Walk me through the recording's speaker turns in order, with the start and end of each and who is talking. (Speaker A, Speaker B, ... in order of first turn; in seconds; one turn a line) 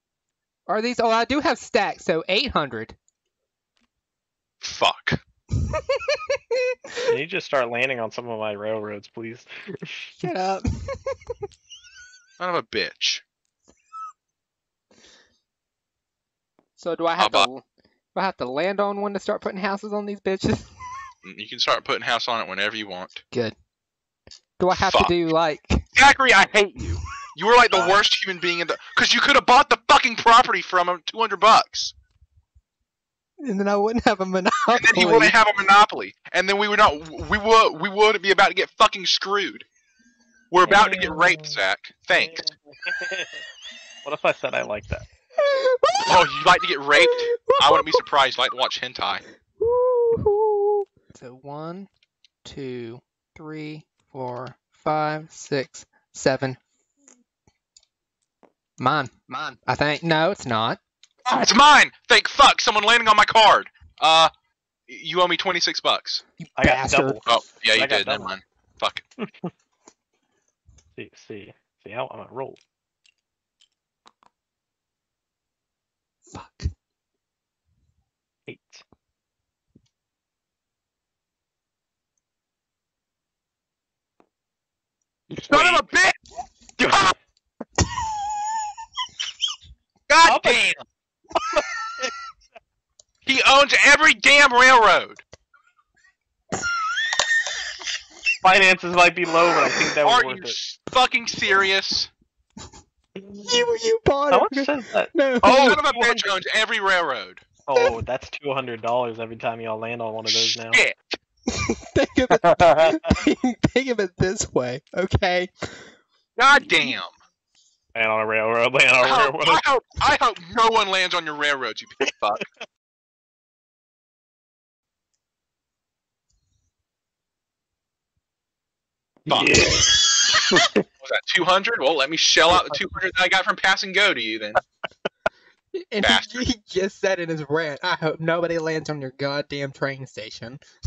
Speaker A: 0.7-3.0
Speaker B: 4.6-5.2
Speaker C: 7.1-10.1
Speaker A: 10.2-11.1
Speaker B: 12.4-13.2
Speaker A: 16.8-17.6
Speaker B: 17.2-17.5
Speaker A: 18.1-20.7
Speaker B: 21.2-23.2
Speaker A: 24.6-25.9
Speaker B: 24.7-25.1
Speaker B: 25.9-31.9
Speaker C: 27.7-28.0
Speaker A: 33.4-35.4
Speaker B: 34.7-39.6
Speaker B: 40.5-42.5
Speaker C: 40.6-41.6
Speaker C: 42.1-43.4
Speaker C: 44.0-45.0
Speaker A: 45.4-46.2
Speaker B: 46.0-49.2
Speaker A: 47.0-48.0
Speaker A: 49.6-51.9
Speaker A: 52.5-56.6
Speaker A: 58.8-60.8
Speaker B: 61.3-64.3
Speaker B: 64.9-66.2
Speaker A: 66.4-67.2
Speaker C: 66.6-68.3
Speaker B: 67.3-69.0
Speaker C: 69.2-69.5
Speaker C: 71.0-72.6
Speaker A: 76.3-76.7
Speaker C: 78.5-78.8
Speaker C: 85.3-85.9
Speaker B: 85.4-86.2
Speaker B: 86.8-87.1
Speaker B: 90.1-90.7
Speaker C: 90.2-90.8
Speaker B: 93.3-95.2
Speaker C: 98.4-100.6
Speaker B: 100.0-102.1
Speaker C: 103.2-103.6
Speaker A: 103.5-105.8
Speaker C: 104.3-106.3
Speaker B: 105.4-107.5
Speaker C: 107.7-110.8
Speaker B: 110.3-111.2
Speaker A: 111.5-115.8
Speaker C: 112.3-113.2
Speaker B: 116.4-117.1
Speaker C: 118.0-119.6
Speaker B: 119.0-122.5
Speaker B: 129.3-129.7
Speaker C: 129.3-130.8
Speaker B: 131.0-134.6
Speaker A: 135.7-140.6
Speaker B: 136.0-136.4